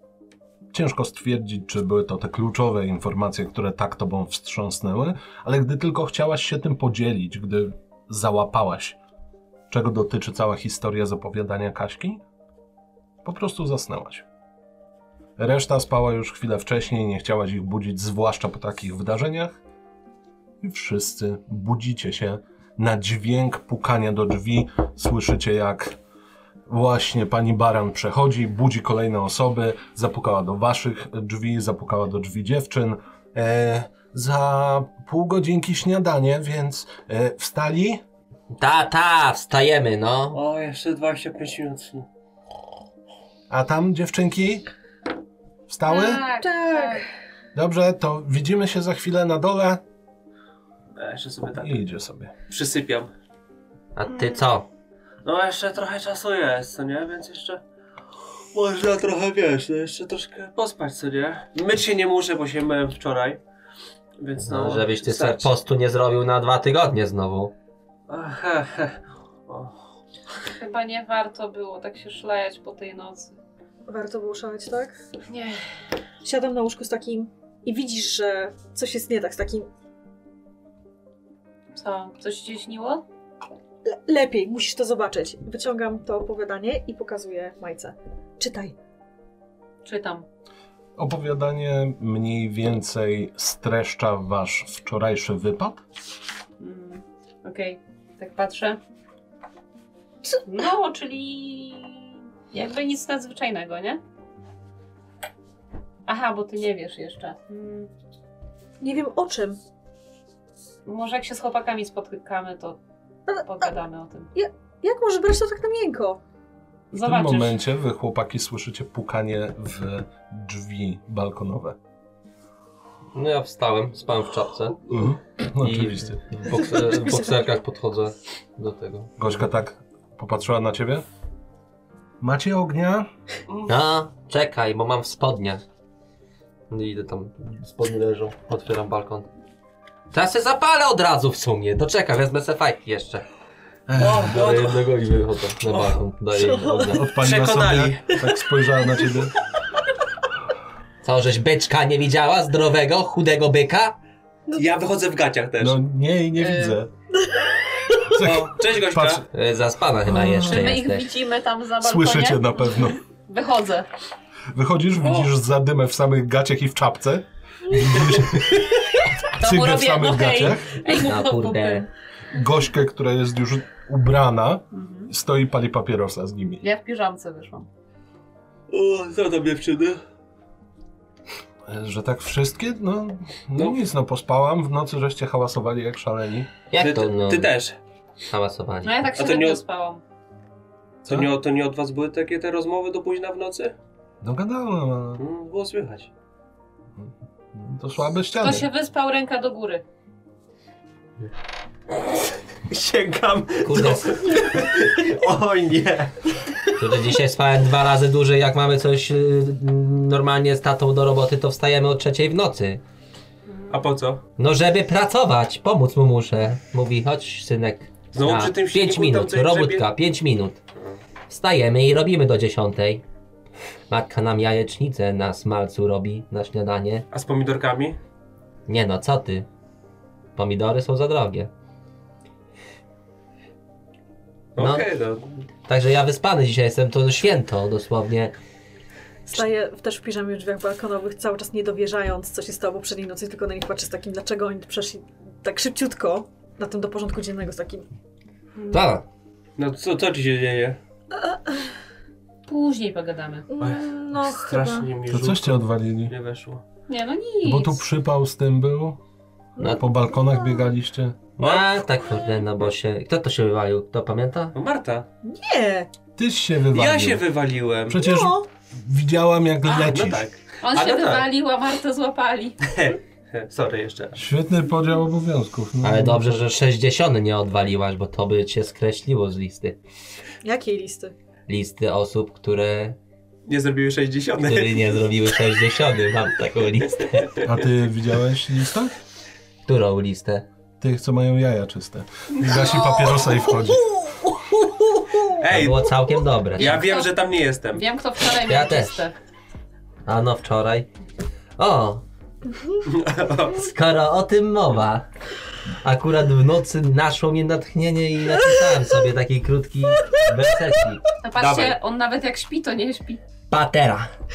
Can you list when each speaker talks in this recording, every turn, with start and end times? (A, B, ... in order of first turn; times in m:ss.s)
0:00.7-0:09.0 A
0:09.7-0:12.2 A
0:13.2-0:14.2 A
0:15.4-0:19.6 A
0:20.6-0:26.0 A
0:26.7-0:38.0 A
0:38.5-0:40.4 B
0:40.3-0:42.1 C
0:43.5-0:44.7 A
0:45.7-0:46.2 A
0:45.9-0:47.0 D
0:46.0-0:47.0 E
0:47.5-0:49.8 A
0:51.0-0:51.8 C
0:51.6-0:52.3 A
0:52.5-0:53.1 C
0:53.9-0:54.7 B
0:55.2-0:57.6 C
0:58.5-1:03.4 C
1:04.2-1:05.5 C
1:04.4-1:07.5 B
1:08.1-1:09.7 C
1:10.5-1:13.3 D
1:13.9-1:14.9 E
1:15.3-1:15.6 D
1:16.2-1:19.7 E
1:21.7-1:23.0 D
1:23.8-1:28.8 E
1:29.8-1:30.2 D
1:31.0-1:35.8 A
1:36.6-1:38.8 D
1:40.4-1:44.0 D
1:46.1-1:47.9 D
1:48.8-1:49.6 E
1:50.8-1:52.8 D
1:53.3-1:53.7 E
1:53.4-1:54.3 D
1:54.3-1:56.2 E
1:56.9-1:57.6 D
1:57.0-2:01.8 A
2:03.1-2:05.0 B
2:04.9-2:06.4 A
2:05.6-2:09.2 B
2:07.0-2:07.3 E
2:09.2-2:11.0 A
2:12.2-2:13.1 A
2:13.6-2:15.6 B
2:16.7-2:19.3 B
2:20.1-2:23.2 B
2:23.9-2:24.4 A
2:24.0-2:24.9 C
2:24.2-2:27.1 B
2:25.7-2:26.0 C
2:26.3-2:27.0 E
2:26.8-2:29.3 A
2:27.1-2:28.2 C
2:31.0-2:34.0 B
2:34.5-2:35.8 C
2:35.6-2:36.9 A
2:36.4-2:36.8 D
2:38.1-2:39.2 A
2:38.2-2:39.2 C
2:39.3-2:41.1 B
2:40.1-2:40.7 A
2:40.4-2:42.5 D
2:41.8-2:43.0 A
2:43.3-2:43.9 D
2:44.5-2:48.6 A
2:48.0-2:48.8 C
2:49.4-2:50.8 A
2:49.4-2:51.9 D
2:50.9-2:51.8 B
2:52.3-2:56.6 A
2:54.7-2:55.1 D
2:56.6-2:57.7 D
2:58.7-3:00.0 C
3:01.7-3:06.5 A
3:06.7-3:07.5 B
3:06.8-3:07.7 C
3:08.3-3:09.1 B
3:08.8-3:10.0 D
3:09.2-3:09.6 C
3:11.0-3:13.7 C
3:14.2-3:15.2 A
3:15.2-3:16.1 C
3:17.0-3:18.7 A
3:18.3-3:19.8 D
3:22.1-3:26.4 C
3:23.6-3:24.2 B
3:26.8-3:32.8 B
3:33.5-3:33.8 D
3:33.7-3:34.2 C
3:34.4-3:40.6 B
3:38.1-3:39.9 C
3:41.3-3:43.0 B
3:43.9-3:47.0 B
3:47.1-3:48.0 C
3:48.7-3:49.5 B
3:50.4-3:51.5 B
3:54.5-3:55.4 C
3:54.6-3:54.9 B
3:55.7-3:58.4 B
3:59.2-4:07.8 E
4:08.6-4:08.9 D
4:08.7-4:09.0 B
4:09.6-4:10.8 C
4:11.2-4:11.7 E
4:12.5-4:13.5 D
4:13.5-4:14.9 E
4:13.6-4:16.6 C
4:15.1-4:16.1 A
4:16.9-4:17.8 D
4:17.4-4:19.0 A
4:19.6-4:20.7 E
4:19.6-4:21.2 A
4:21.4-4:24.6 B
4:21.4-4:21.7 C
4:24.5-4:25.1 C
4:25.2-4:25.9 E
4:26.2-4:27.2 A
4:26.7-4:28.0 C
4:27.9-4:30.2 A
4:28.0-4:28.4 E
4:29.6-4:31.2 C
4:30.6-4:32.6 D
4:32.6-4:34.2 C
4:34.2-4:36.4 A
4:35.8-4:39.8 B
4:40.4-4:41.1 E
4:41.5-4:43.0 B
4:43.5-4:45.0 C
4:44.4-4:47.4 B
4:47.4-4:48.9 A
4:49.6-4:50.4 B
4:50.8-4:53.8 A
4:55.4-4:57.8 C
4:55.5-4:56.8 B
4:56.5-4:57.1 D
4:57.7-4:59.1 D
4:58.4-4:59.0 B
5:00.0-5:00.9 B
5:01.6-5:02.0 B
5:02.8-5:03.7 C
5:03.6-5:05.0 B
5:05.8-5:11.0 B
5:11.2-5:13.2 D
5:11.4-5:11.8 C
5:13.5-5:14.1 B